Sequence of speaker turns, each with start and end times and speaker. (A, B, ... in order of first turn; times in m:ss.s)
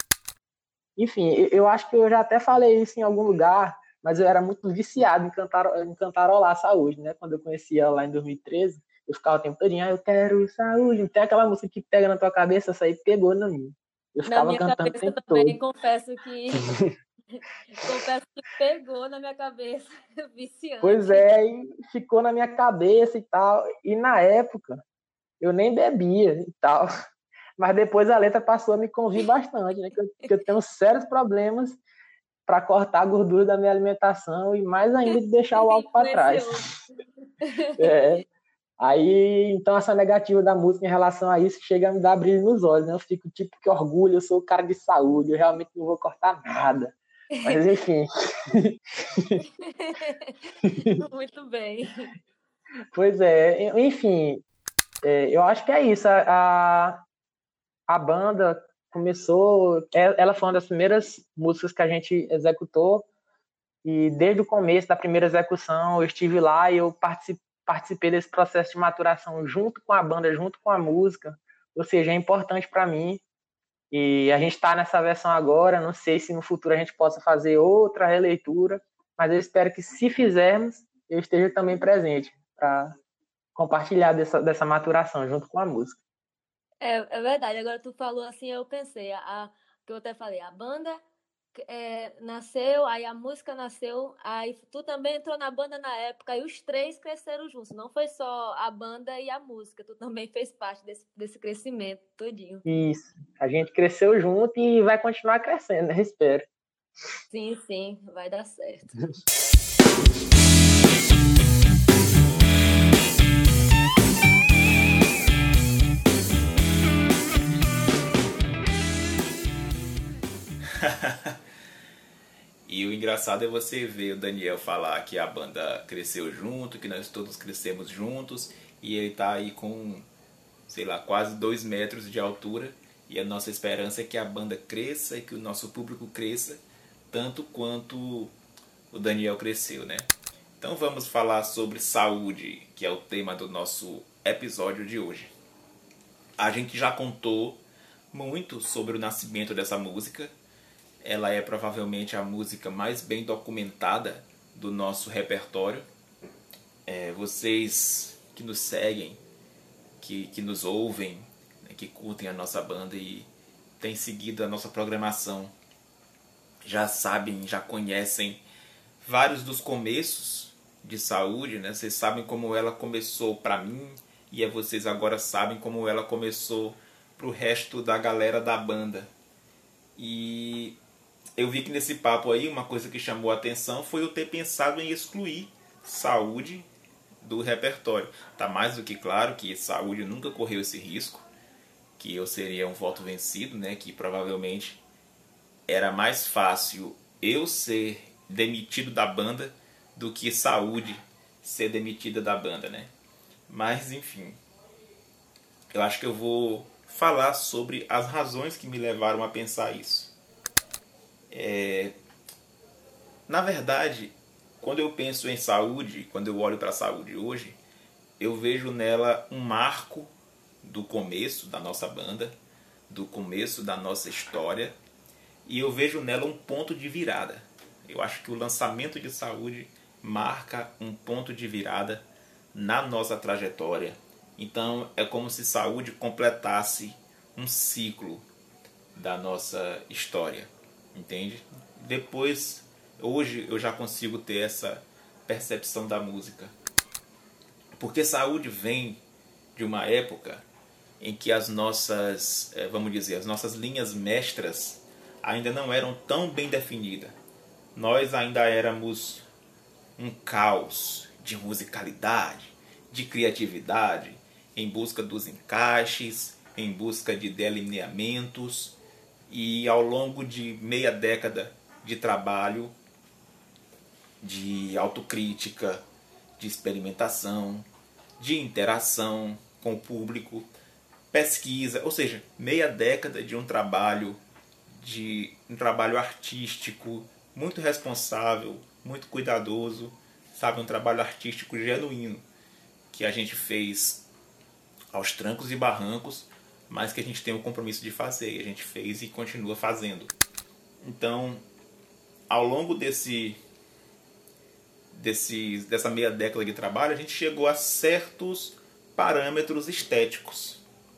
0:01.0-0:15.6 A
0:14.3-0:16.7 B
0:17.4-0:21.4 B
0:20.8-0:24.8 A
0:25.4-0:26.9 A
0:27.6-0:31.8 A
0:32.5-0:36.6 A
0:35.5-0:36.8 B
0:37.4-0:37.9 B
0:37.8-0:38.2 A
0:38.8-0:46.9 A
0:47.4-0:49.4 A
0:49.6-0:50.4 B
0:50.6-0:51.0 A
0:51.0-0:52.1 B
0:52.9-0:54.4 A
0:55.0-0:57.0 A
0:57.9-1:03.1 A
1:03.8-1:13.2 A
1:13.9-1:22.9 A
1:23.6-1:26.0 A
1:26.8-1:31.0 B
1:31.6-1:42.6 B
1:42.7-1:46.5 A
1:47.3-1:48.9 B
2:00.8-2:01.3 C
2:02.7-2:10.1 C
2:10.7-2:18.3 C
2:18.9-2:25.3 C
2:26.4-2:27.6 C
2:28.1-2:30.3 C
2:31.0-2:35.9 C
2:36.9-2:39.2 C
2:40.0-2:43.3 C
2:43.8-2:45.5 C
2:46.6-2:48.4 C
2:49.0-2:59.1 C
3:00.0-3:00.8 C
3:01.4-3:06.7 C
3:07.2-3:11.3 C
3:12.0-3:14.8 C
3:15.7-3:22.9 C
3:23.5-3:24.4 C
3:25.7-3:30.1 C
3:31.3-3:31.9 C
3:33.3-3:37.6 C
3:38.2-3:40.1 C
3:40.6-3:42.3 C
3:42.9-3:44.8 C
3:45.5-3:58.2 C
3:59.0-4:06.5 C
4:07.8-4:09.0 C
4:09.6-4:10.4 C
4:11.0-4:17.2 C
4:17.8-4:19.3 C
4:20.0-4:28.8 C
4:29.3-4:32.8 C
4:34.2-4:35.8 C
4:36.4-4:37.7 C
4:38.2-4:40.5 C
4:41.1-4:44.2 C
4:44.8-4:52.2 C
4:52.9-4:54.0 C
4:54.9-5:00.1 C
5:00.8-5:01.4 C
5:02.3-5:03.4 C
5:04.9-5:10.6 C